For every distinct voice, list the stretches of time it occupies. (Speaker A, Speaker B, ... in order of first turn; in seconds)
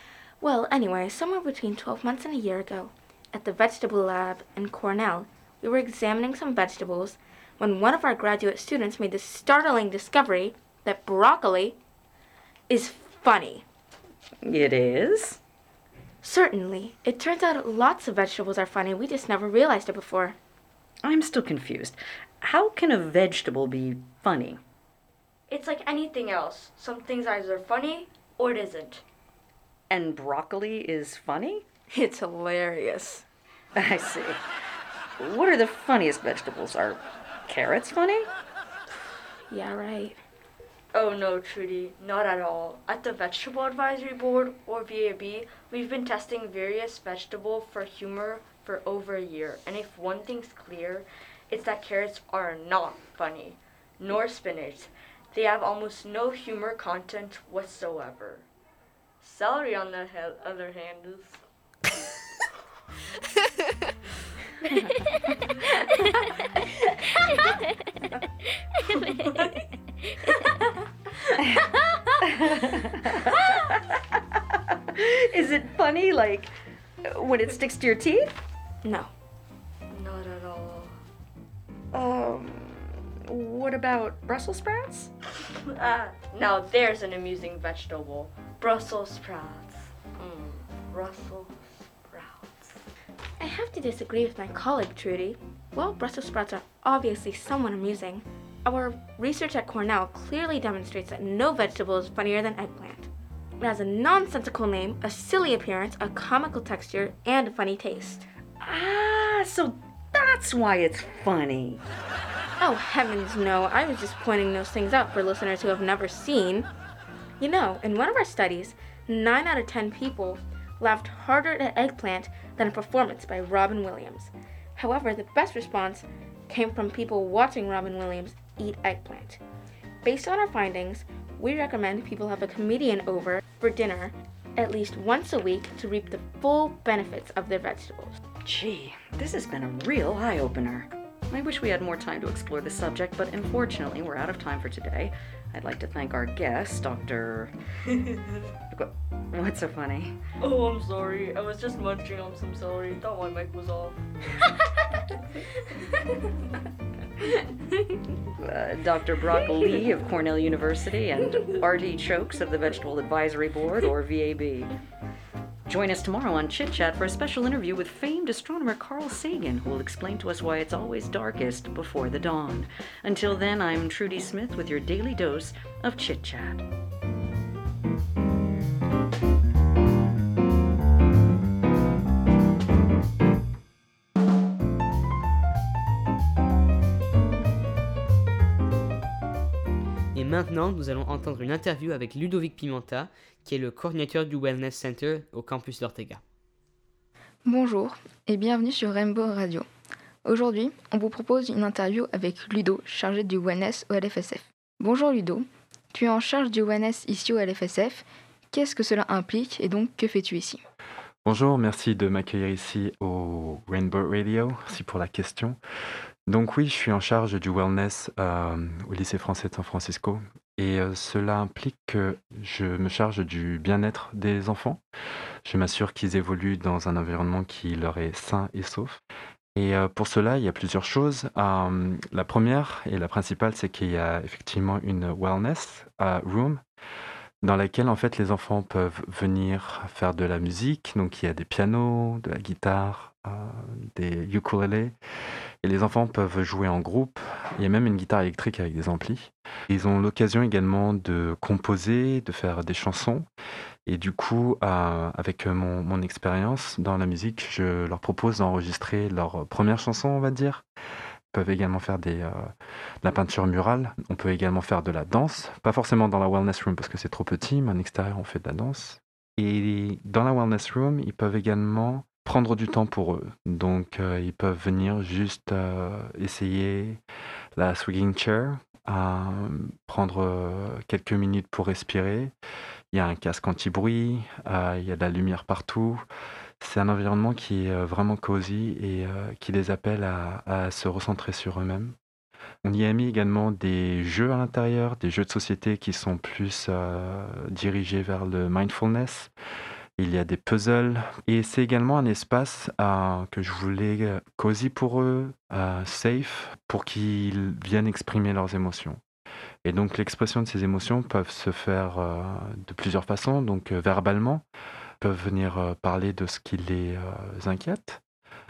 Speaker A: 0.4-11.8, 12.7-13.6, 16.2-20.4, 31.9-33.2, 39.5-40.2, 78.8-79.1, 93.4-103.1, 103.6-108.2, 112.6-116.7, 117.4-129.4, 130.0-138.2
Speaker B: 14.4-15.4, 21.0-24.6, 29.9-31.6, 33.8-34.4, 35.2-38.3, 72.2-73.6, 74.9-76.5, 77.0-78.4, 81.9-85.1, 108.6-111.8, 138.4-147.5, 148.7-150.2, 158.4-164.8, 165.7-176.7
Speaker C: 25.5-29.0, 40.9-58.5, 59.2-61.4, 79.9-80.9, 85.7-92.8, 150.4-154.0
Speaker D: 190.1-196.2
Speaker E: 197.4-199.7, 200.2-210.6
Speaker F: 211.2-215.6, 216.3-224.8, 225.4-229.0, 229.6-236.6, 237.4-244.9, 245.6-253.3, 253.9-260.6, 261.3-262.5, 263.0-277.0, 277.6-282.3, 282.9-286.0, 286.6-292.0, 292.6-299.3, 300.0-309.0, 309.6-314.4, 315.0-318.0